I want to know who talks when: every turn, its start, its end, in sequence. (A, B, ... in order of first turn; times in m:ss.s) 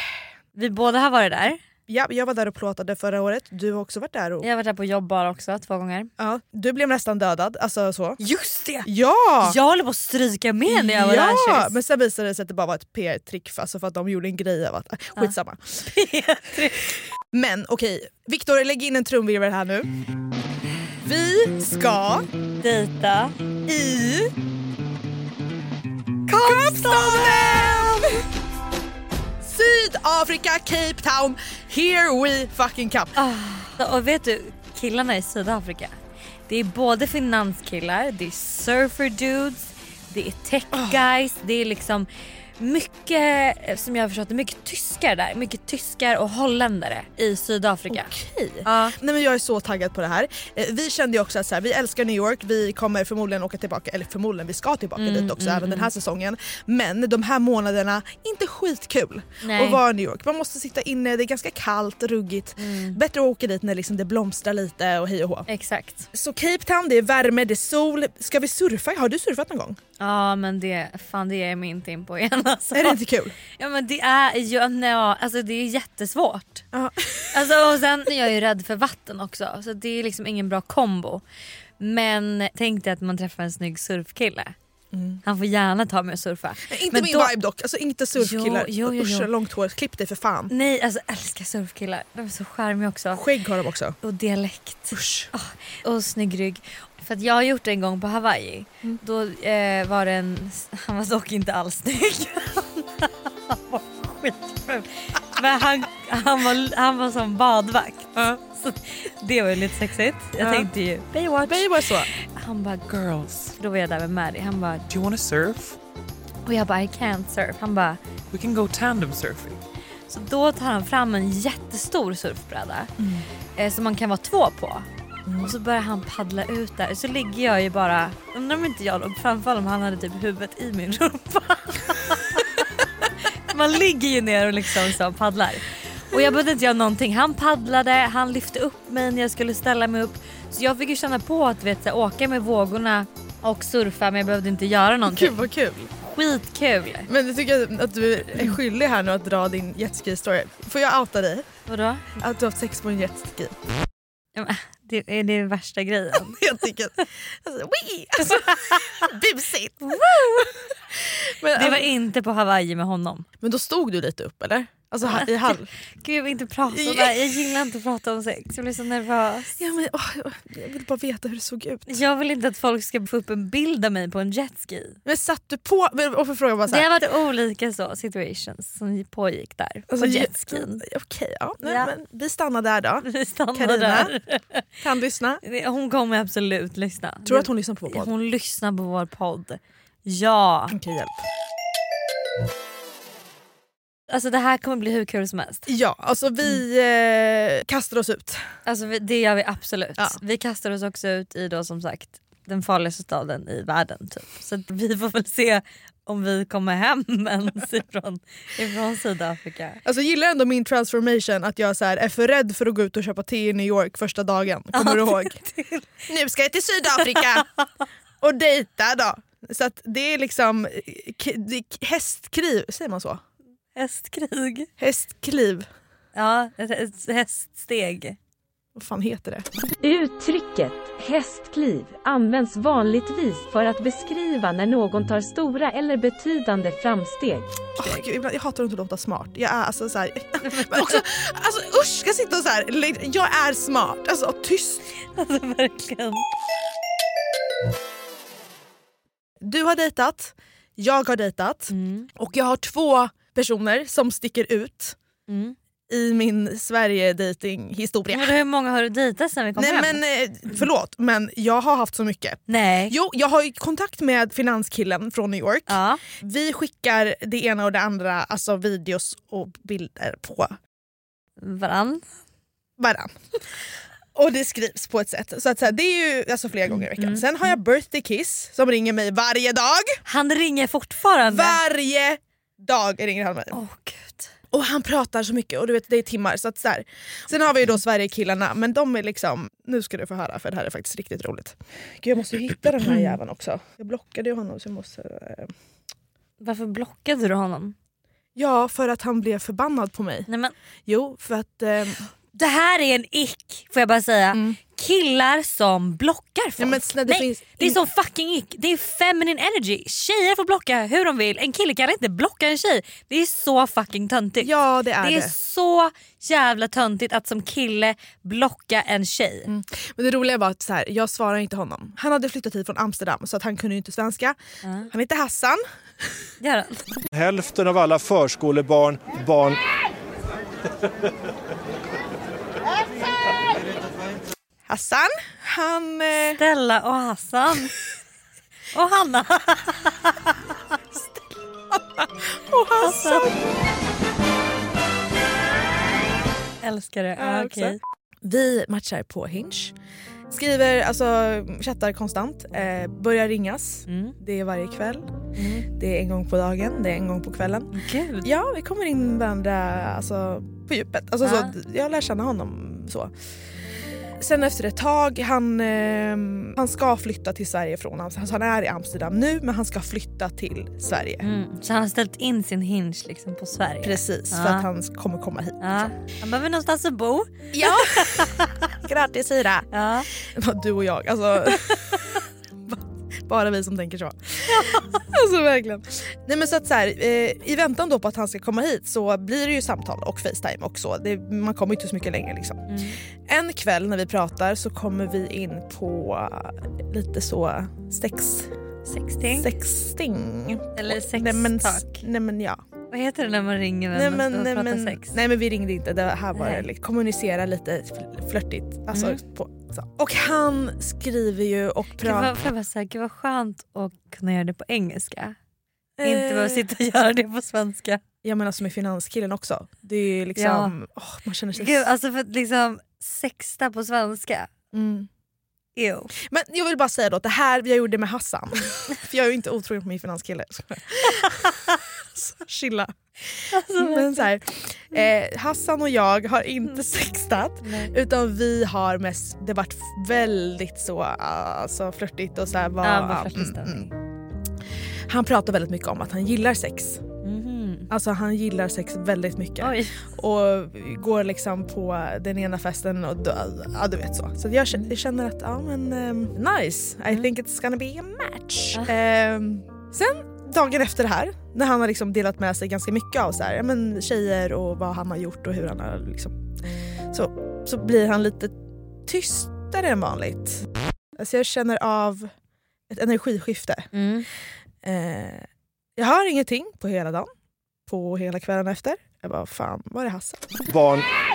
0:00.6-0:01.6 A
0:01.9-0:04.5 B
0:04.4-0:06.1 A
0:06.2-0:08.2 B
0:08.2-0:08.9 A
0:08.8-0:09.6 B
0:09.4-0:11.8 A
0:10.7-0:15.8 B
0:15.2-0:16.9 A
0:17.3-0:19.9 B
0:21.0-0:22.3 B
0:22.6-0:23.3 A
0:23.7-0:24.3 B
0:26.3-0:28.2 A
0:26.4-0:28.2 B
0:29.4-0:33.2 B
0:33.2-0:36.0 A
0:36.5-0:42.1 A
0:40.7-0:41.0 B
0:42.6-0:48.1 A
0:47.9-1:05.5 B
0:48.6-0:49.0 A
0:55.0-0:55.9 A
0:59.4-0:59.8 A
1:02.6-1:03.0 A
1:05.5-1:06.1 A
1:06.1-1:09.8 B
1:10.0-1:13.0 A
1:12.7-1:13.4 B
1:13.6-1:16.6 A
1:16.7-1:17.4 B
1:17.3-1:21.2 A
1:21.8-1:24.6 A
1:24.9-1:25.2 B
1:25.2-1:27.4 A
1:26.7-1:30.5 B
1:28.2-1:29.3 A
1:30.5-1:33.2 A
1:33.1-1:34.0 B
1:34.0-1:54.9 A
1:34.9-1:35.3 B
1:50.4-1:50.7 B
1:51.4-1:52.1 B
1:54.9-1:55.8 C
1:56.4-1:58.0 A
1:58.3-1:59.6 C
2:00.1-2:02.9 A
2:03.0-2:03.2 B
2:03.6-2:04.9 A
2:05.3-2:05.6 B
2:05.4-2:12.8 A
2:13.5-2:25.4 A
2:25.1-2:25.9 B
2:26.0-2:27.1 A
2:27.1-2:31.5 B
2:31.7-2:32.1 A
2:32.2-2:33.6 B
2:34.4-2:36.4 A
2:36.2-2:41.9 B
2:38.2-2:39.0 A
2:41.6-2:43.3 A
2:43.4-2:45.7 B
2:46.0-2:49.6 A
2:46.7-2:47.3 B
2:49.6-2:52.0 B
2:51.9-2:55.0 A
2:55.0-2:56.9 B
2:56.7-3:00.8 A
2:59.9-3:04.1 B
3:01.6-3:01.9 A
3:03.0-3:04.6 A
3:04.8-3:05.4 B
3:05.4-3:10.8 A
3:07.3-3:08.1 B
3:10.7-3:11.2 B
3:14.1-3:15.7 A
3:15.7-3:18.4 B
3:18.7-3:29.8 A
3:29.8-3:35.4 B
3:34.7-3:36.0 A
3:36.1-3:37.5 B
3:37.0-3:37.6 A
3:38.2-3:43.2 B
3:43.8-3:44.7 A
3:44.8-3:45.7 B
3:46.2-3:48.2 A
3:48.8-3:49.5 B
3:49.8-3:57.7 D
3:57.8-4:04.8 B
4:00.4-4:01.0 A
4:05.2-4:06.2 A
4:09.4-4:15.0 B
4:11.7-4:12.1 A
4:15.3-4:15.6 A
4:15.9-4:18.4 B
4:18.1-4:20.0 A
4:19.6-4:30.6 B
4:22.5-4:23.0 A
4:25.7-4:26.0 A
4:31.4-4:32.0 A
4:32.8-4:33.2 B
4:34.1-4:40.0 B
4:36.9-4:37.5 A
4:40.1-4:41.6 A
4:41.3-4:43.6 B
4:43.5-4:44.3 A
4:44.5-4:55.5 B
4:56.4-4:57.8 A
4:58.4-5:00.3 B
5:00.3-5:00.5 A
5:00.9-5:02.0 B
5:02.3-5:19.5 A
5:04.3-5:04.6 B
5:06.6-5:07.8 B
5:14.4-5:15.3 B
5:19.5-5:24.4 B
5:24.6-5:24.9 A
5:24.9-5:25.6 B
5:26.4-5:27.1 A
5:27.1-5:29.6 E
5:34.7-5:36.4 B
5:36.4-5:37.8 A
5:38.7-5:40.4 A
5:41.7-5:43.5 B
5:42.8-5:43.4 A
5:46.6-5:47.8 A
5:47.2-5:49.8 B
5:50.3-5:55.1 B
5:53.9-5:54.2 A
5:55.4-5:55.7 A
5:55.7-5:57.7 B
5:57.7-5:58.3 A
5:58.2-6:03.1 B
6:01.2-6:01.5 A
6:04.2-6:11.3 B
6:11.2-6:14.7 A
6:13.8-6:15.9 B
6:15.6-6:18.7 A
6:17.5-6:22.0 B
6:19.7-6:20.1 A
6:21.5-6:22.0 A
6:23.2-6:38.5 B
6:24.5-6:25.0 A
6:32.7-6:33.0 A
6:38.9-6:39.5 A
6:39.4-6:42.6 B
6:40.8-6:42.0 A
6:42.9-6:45.2 A
6:43.9-6:52.3 B
6:46.4-6:46.6 A
6:48.9-6:49.2 A
6:52.0-6:55.4 A
6:56.0-6:56.6 B
6:56.0-6:58.0 A
6:58.2-7:01.9 B
7:00.4-7:00.7 A
7:01.6-7:04.5 A
7:04.7-7:05.1 B
7:05.8-7:06.1 A
7:06.2-7:11.6 B
7:11.1-7:11.6 A
7:12.2-7:23.9 B
7:13.5-7:14.3 A
7:17.6-7:17.9 A
7:22.8-7:23.9 A
7:25.1-7:27.0 B
7:27.2-7:27.9 A
7:27.9-7:46.5 B
7:29.6-7:30.0 A
7:47.1-7:48.6 B
7:49.1-7:50.6 B
7:51.2-7:52.3 B
7:52.9-7:53.9 B
7:53.9-7:54.3 A
7:54.8-7:57.3 B
7:57.9-8:00.5 B
8:00.7-8:01.0 E